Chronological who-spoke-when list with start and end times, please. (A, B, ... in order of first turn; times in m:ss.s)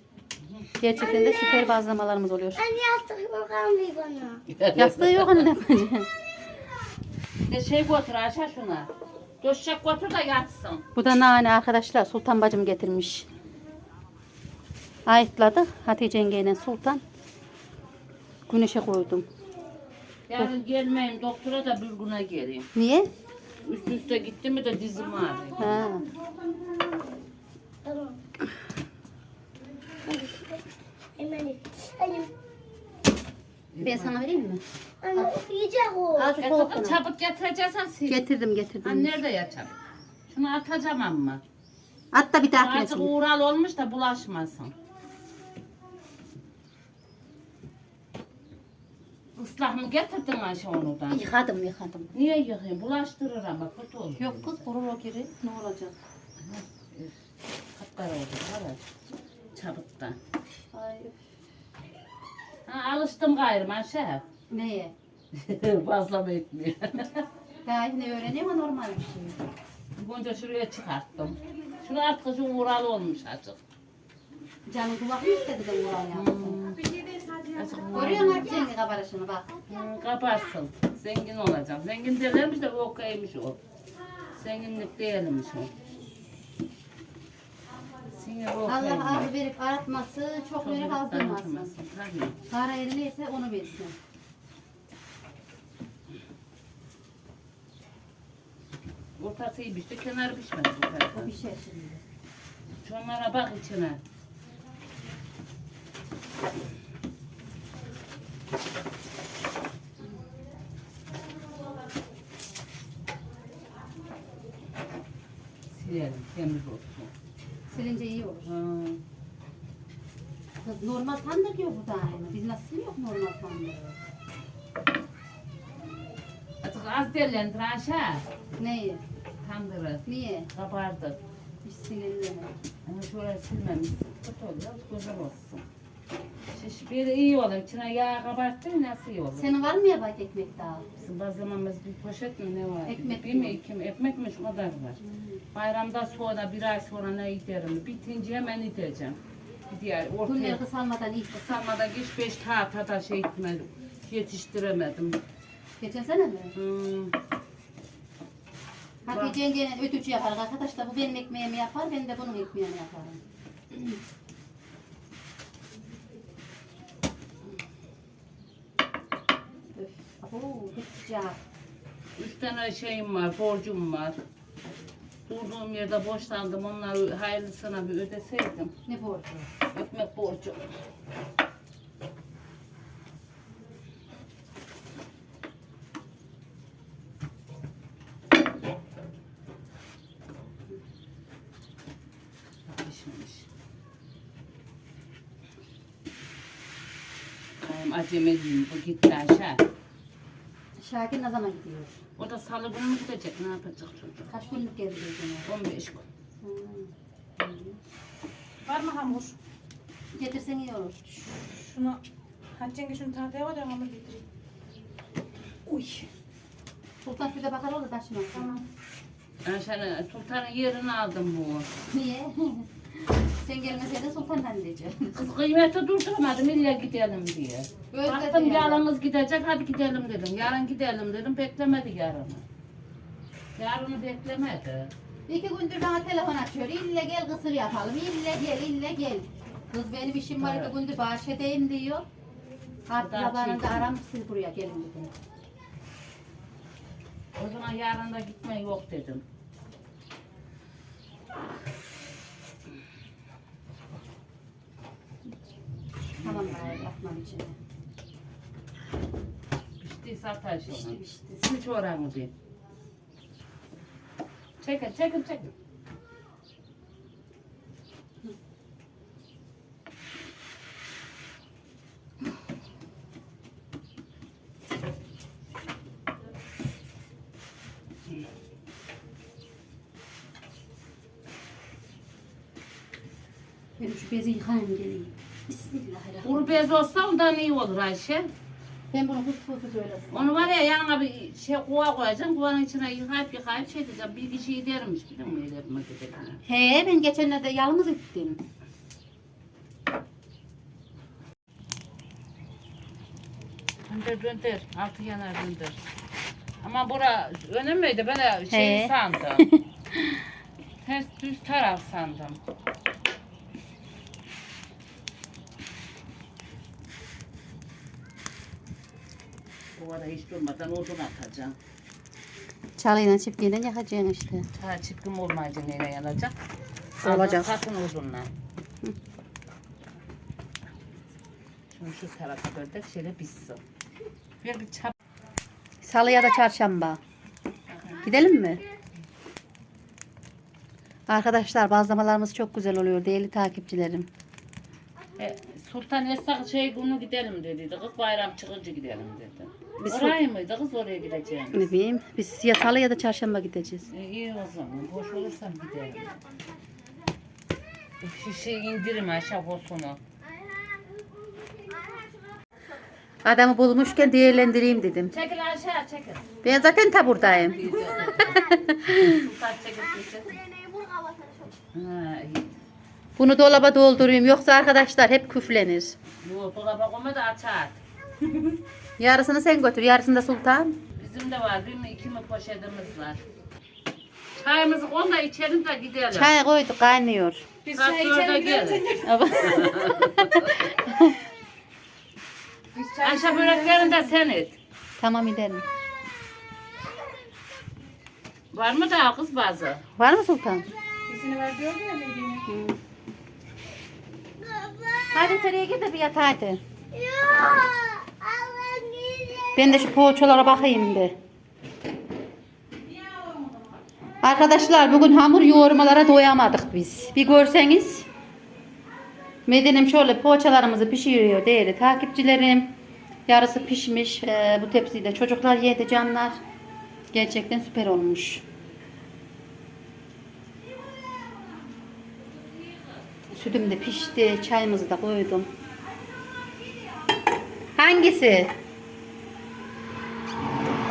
0:00.4-0:00.8 A
0:00.8-0:02.6 B
0:00.9-0:01.8 C
0:02.6-0:04.4 C
0:04.5-0:05.5 A
0:04.7-0:06.1 B
0:07.5-0:08.9 A
0:09.4-0:10.8 A
0:10.9-0:13.3 B
0:15.1-0:17.0 B
0:18.5-0:19.2 B
0:20.3-0:22.7 A
0:22.7-0:23.1 B
0:23.6-0:25.7 A
0:25.6-0:26.0 B
0:26.0-0:27.0 C
0:27.8-0:28.2 C
0:30.0-0:30.6 C
0:31.2-0:32.3 C
0:33.7-0:34.2 A
0:33.8-0:34.6 B
0:35.0-0:36.3 C
0:36.1-0:37.0 B
0:36.4-0:38.2 A
0:38.1-0:39.1 B
0:38.8-0:39.8 A
0:40.3-0:41.4 A
0:42.1-0:43.1 B
0:42.6-0:44.7 A
0:49.4-0:51.3 A
0:51.1-0:52.1 B
0:52.1-0:54.6 A
0:54.2-0:55.9 B
0:56.4-0:57.2 A
0:57.7-0:58.8 A
0:59.5-1:00.2 A
1:00.7-1:01.2 B
1:02.7-1:04.2 A
1:04.5-1:04.9 B
1:05.3-1:07.3 A
1:07.6-1:09.4 B
1:10.0-1:13.6 A
1:14.7-1:16.6 B
1:16.1-1:16.8 A
1:16.6-1:18.7 D
1:17.5-1:18.6 A
1:17.9-1:19.5 B
1:19.7-1:23.6 A
1:24.3-1:25.7 A
1:28.1-1:29.3 A
1:28.6-1:31.7 B
1:30.6-1:32.4 A
1:32.5-1:34.0 B
1:39.2-1:41.3 A
1:41.1-1:42.0 B
1:42.8-1:44.0 A
1:55.7-1:57.1 A
1:57.7-1:58.5 B
1:58.4-1:59.0 A
2:00.6-2:04.0 B
2:06.6-2:08.2 A
2:08.6-2:09.0 B
2:09.4-2:11.2 A
2:10.0-2:10.5 B
2:11.6-2:12.5 B
2:12.8-2:15.6 A
2:16.5-2:19.5 A
2:19.4-2:20.8 B
2:21.0-2:25.0 A
2:22.8-2:23.6 B
2:25.0-2:25.4 B
2:25.5-2:30.6 A
2:30.2-2:31.6 B
2:31.3-2:35.2 A
2:35.8-2:36.5 B
2:36.5-2:37.2 A
2:39.0-2:43.2 B
2:39.1-2:39.4 A
2:43.7-2:44.0 B
2:49.7-2:51.4 B
2:52.2-2:54.2 A
2:55.3-2:58.7 A
2:58.8-2:59.5 B
2:59.7-3:00.6 A
3:12.6-3:13.5 A
3:17.6-3:19.6 A
3:20.8-3:22.0 B
3:22.2-3:24.3 A
3:24.3-3:25.5 B
3:25.4-3:26.0 A
3:26.4-3:27.8 B
3:28.6-3:29.4 D
3:30.1-3:31.2 B
3:31.3-3:32.0 D
3:32.5-3:34.2 D
3:35.7-3:36.1 D
3:37.0-3:38.5 B
3:38.3-3:38.6 D
3:39.4-3:41.7 A
3:41.9-3:45.3 B
3:45.2-3:52.4 A
3:47.9-3:48.8 B
3:53.6-3:54.9 A
3:55.3-4:02.0 B
4:00.4-4:00.8 A
4:02.9-4:05.1 B
4:03.0-4:03.9 A
4:07.4-4:09.2 A
4:16.2-4:16.9 A
4:16.2-4:17.6 B
4:19.8-4:22.3 A
4:20.7-4:21.4 B
4:24.6-4:25.5 A
4:43.8-4:46.6 B
4:46.2-4:48.3 A
4:48.9-4:50.5 B
4:50.1-4:56.4 A
4:56.4-4:58.4 B
5:03.9-5:05.8 A
5:06.6-5:09.5 A
5:08.5-5:10.2 B
5:10.8-5:12.4 A
5:19.7-5:21.6 A
5:22.8-5:24.5 B
5:24.5-5:26.3 A
5:27.0-5:27.5 B
5:27.0-5:28.3 A
5:31.7-5:33.6 A
5:34.4-5:34.9 A
5:35.8-5:37.0 B
5:37.7-5:38.0 A
5:38.0-5:38.6 B
5:41.1-5:44.1 B
5:45.2-5:51.7 A
5:49.8-5:50.2 B
5:51.5-5:53.9 B
5:53.9-5:56.1 A
5:58.0-6:00.0 A
6:00.5-6:00.8 C
6:01.5-6:02.4 C
6:03.2-6:05.2 B
6:05.1-6:10.4 A
6:06.4-6:09.2 B
6:07.6-6:08.7 C
6:10.0-6:11.6 C
6:11.7-6:12.6 A
6:13.2-6:16.0 B
6:16.2-6:17.8 A
6:19.0-6:20.8 B
6:21.0-6:23.2 A
6:24.4-6:26.3 A
6:26.1-6:27.4 B
6:27.6-6:29.7 D
6:27.7-6:30.6 A
6:29.0-6:31.2 B
6:32.7-6:34.1 D
6:33.0-6:34.6 A
6:35.0-6:35.6 B
6:38.5-6:39.8 A
6:40.0-6:40.7 B
6:41.1-6:42.4 D
6:42.5-6:42.8 B
6:44.4-6:45.5 C
6:45.1-6:46.6 B
6:46.9-6:49.9 C
6:49.5-6:51.2 B
6:52.7-6:53.8 D
6:54.2-6:58.1 B
6:59.5-7:02.7 B
7:03.3-7:06.4 B
7:07.1-7:08.4 B
7:13.3-7:15.5 B
7:17.8-7:18.5 B